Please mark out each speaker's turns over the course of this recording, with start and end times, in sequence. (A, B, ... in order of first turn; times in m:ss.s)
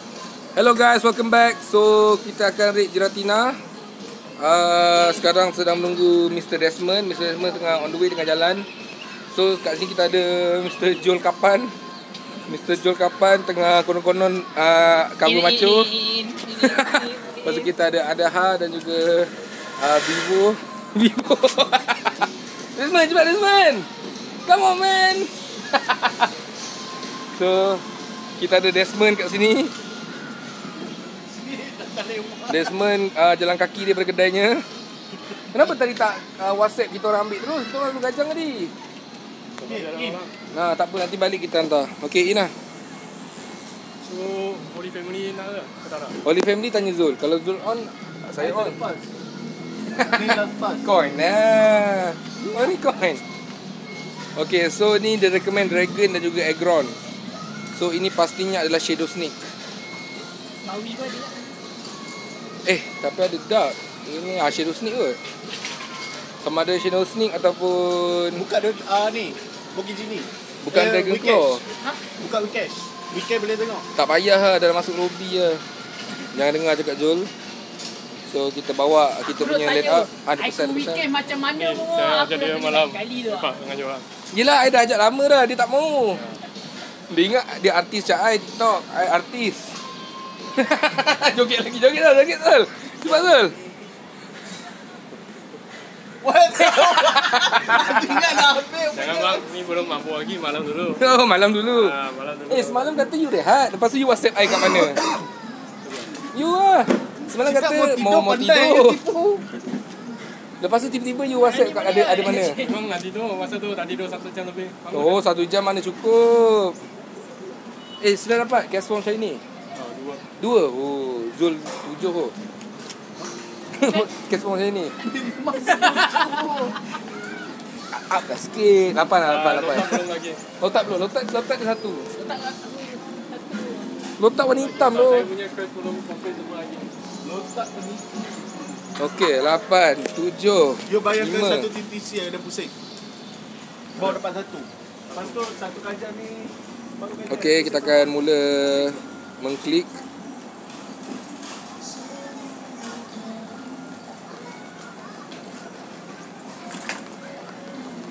0:00.6-0:03.6 A
0:04.4-0:11.7 A
0:12.5-0:15.9 A
0:15.3-0:17.6 B
0:16.5-0:23.9 A
0:24.5-0:26.3 A
0:27.3-0:27.8 A
0:28.4-0:29.7 A
0:31.2-0:32.8 C
0:32.5-0:34.6 A
0:35.5-0:38.7 A
0:39.6-0:40.3 D
0:39.6-0:40.2 C
0:40.5-0:42.5 A
0:44.0-0:46.2 D
0:46.2-0:48.8 A
0:48.4-0:49.1 C
0:50.0-0:50.9 C
0:50.0-0:53.2 A
0:54.4-0:57.0 A
0:57.7-0:59.5 A
1:00.6-1:01.6 B
1:02.6-1:05.2 A
1:06.4-1:08.4 A
1:08.3-1:13.9 C
1:10.6-1:11.6 A
1:14.0-1:15.6 A
1:16.3-1:17.3 A
1:18.3-1:21.0 A
1:19.3-1:23.5 B
1:21.6-1:24.0 D
1:24.3-1:26.2 A
1:26.2-1:26.4 D
1:27.1-1:29.8 A
1:30.6-1:33.6 A
1:36.2-1:39.4 C
1:36.6-1:38.1 A
1:38.9-1:41.0 D
1:41.0-1:42.0 A
1:41.7-1:43.0 D
1:42.5-1:45.0 A
1:44.5-1:45.3 C
1:45.8-1:46.1 D
1:46.3-1:49.0 A
1:47.3-1:49.5 C
1:50.6-1:52.6 A
1:51.4-1:52.8 B
1:52.2-1:55.2 D
1:54.9-1:56.8 A
1:58.0-1:59.4 A
1:59.8-2:00.2 D
2:00.4-2:02.4 A
2:03.7-2:05.0 A
2:05.0-2:06.9 C
2:07.9-2:10.0 A
2:09.2-2:10.4 D
2:10.6-2:12.1 A
2:12.2-2:14.1 B
2:14.2-2:15.3 A
2:14.4-2:16.9 D
2:17.2-2:18.8 C
2:19.0-2:21.7 A
2:20.8-2:22.7 C
2:24.0-2:28.2 C
2:25.1-2:25.4 D
2:27.3-2:30.0 A